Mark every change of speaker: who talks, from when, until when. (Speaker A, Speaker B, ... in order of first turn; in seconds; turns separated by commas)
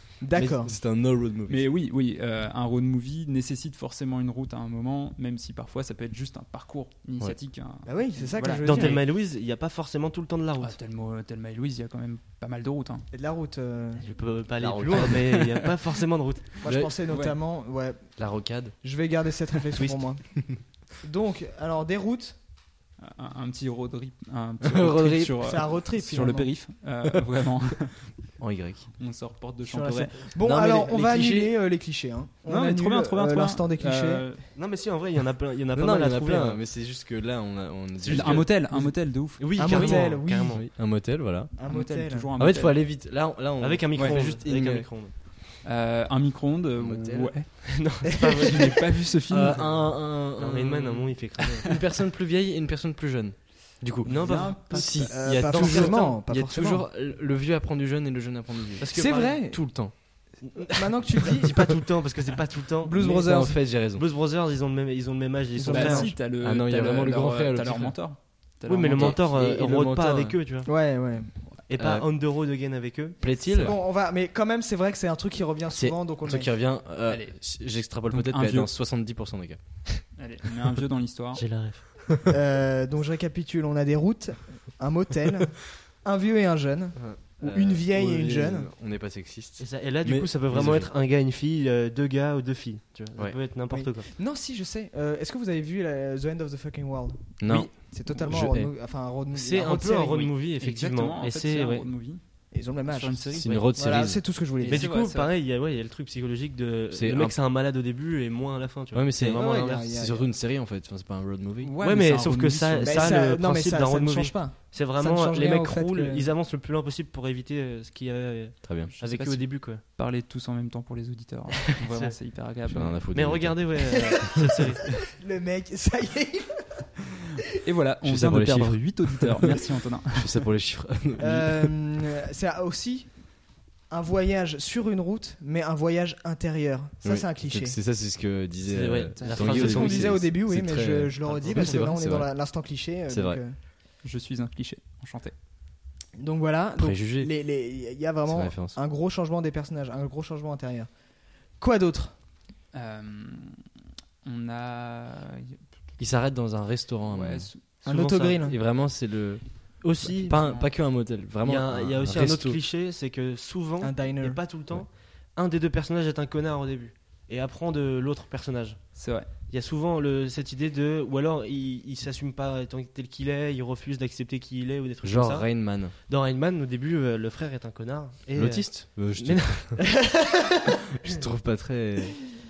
Speaker A: 0.2-0.7, Speaker B: 0.3-0.6, Speaker C: 0.4-1.7, Speaker D: 1.5-9.0, Speaker A: 7.8-9.0, Speaker B: 8.6-10.8, Speaker D: 10.6-13.1, Speaker A: 13.1-14.1, Speaker B: 14.0-16.5, Speaker C: 14.6-15.4, Speaker A: 16.6-22.4, Speaker C: 16.6-17.0, Speaker D: 17.1-17.3, Speaker C: 18.2-18.7, Speaker B: 19.8-20.0, Speaker D: 23.0-28.3, Speaker C: 24.6-25.4, Speaker A: 25.4-26.5, Speaker C: 28.4-28.9, Speaker D: 28.9-30.2, Speaker A: 29.7-34.2, Speaker C: 30.4-31.6, Speaker D: 32.5-34.4, Speaker B: 34.5-36.6, Speaker C: 35.7-38.5, Speaker B: 38.0-38.6, Speaker D: 38.1-39.8, Speaker B: 39.4-40.6, Speaker A: 39.5-40.7, Speaker C: 39.6-41.5, Speaker A: 41.5-42.3, Speaker D: 41.7-42.8, Speaker C: 42.3-44.9, Speaker B: 43.6-45.1, Speaker D: 43.9-44.2, Speaker D: 45.6-49.7, Speaker C: 46.8-47.3, Speaker B: 47.7-48.8, Speaker C: 49.3-51.1, Speaker B: 50.4-51.7, Speaker D: 51.4-51.7, Speaker C: 51.6-60.4, Speaker B: 54.0-56.1, Speaker D: 54.1-55.1, Speaker A: 54.9-56.8, Speaker B: 58.8-59.5, Speaker A: 58.9-61.8, Speaker B: 60.5-66.1, Speaker A: 62.8-63.6, Speaker C: 63.0-64.0, Speaker A: 65.6-66.1, Speaker D: 65.7-69.2, Speaker C: 66.1-68.0, Speaker B: 68.7-70.7, Speaker C: 68.9-70.4, Speaker A: 70.7-71.5, Speaker B: 71.7-73.8, Speaker C: 71.8-72.1, Speaker C: 73.2-73.8, Speaker A: 73.6-76.5, Speaker C: 75.7-80.1, Speaker D: 77.0-78.7, Speaker D: 80.2-81.4, Speaker B: 81.3-82.1, Speaker A: 82.3-88.7, Speaker C: 87.0-90.9, Speaker B: 89.6-94.1, Speaker A: 93.7-100.3, Speaker C: 97.4-98.7, Speaker B: 99.3-101.8, Speaker D: 100.6-103.9, Speaker A: 102.5-104.9, Speaker C: 103.3-104.2, Speaker D: 104.6-105.3, Speaker B: 104.7-109.8, Speaker C: 106.9-107.3, Speaker C: 108.9-111.8, Speaker A: 109.3-110.3, Speaker D: 111.6-113.2, Speaker B: 111.8-119.8, Speaker A: 112.8-116.3, Speaker C: 118.6-118.9, Speaker D: 118.9-123.0, Speaker B: 121.8-122.1, Speaker C: 122.7-124.2, Speaker B: 123.1-125.0, Speaker A: 124.0-124.5, Speaker A: 125.1-127.0, Speaker D: 127.6-130.4, Speaker C: 128.0-129.6, Speaker C: 130.1-131.7, Speaker A: 131.2-137.8, Speaker C: 137.0-143.4, Speaker B: 138.6-140.2, Speaker D: 139.2-139.6, Speaker A: 139.4-143.6, Speaker B: 141.5-141.8, Speaker D: 144.0-145.3, Speaker A: 146.2-152.2, Speaker C: 146.8-147.4, Speaker C: 148.3-148.8, Speaker D: 152.7-153.6, Speaker D: 154.2-155.6, Speaker C: 156.0-157.5, Speaker D: 157.1-157.6, Speaker A: 157.8-158.6, Speaker B: 157.8-158.5, Speaker C: 158.4-162.6, Speaker B: 159.8-160.6, Speaker D: 160.3-160.7, Speaker B: 161.4-179.9, Speaker A: 163.8-164.4, Speaker D: 168.9-169.3, Speaker C: 175.0-175.9, Speaker C: 178.3-179.9, Speaker A: 180.0-180.5, Speaker C: 181.0-182.2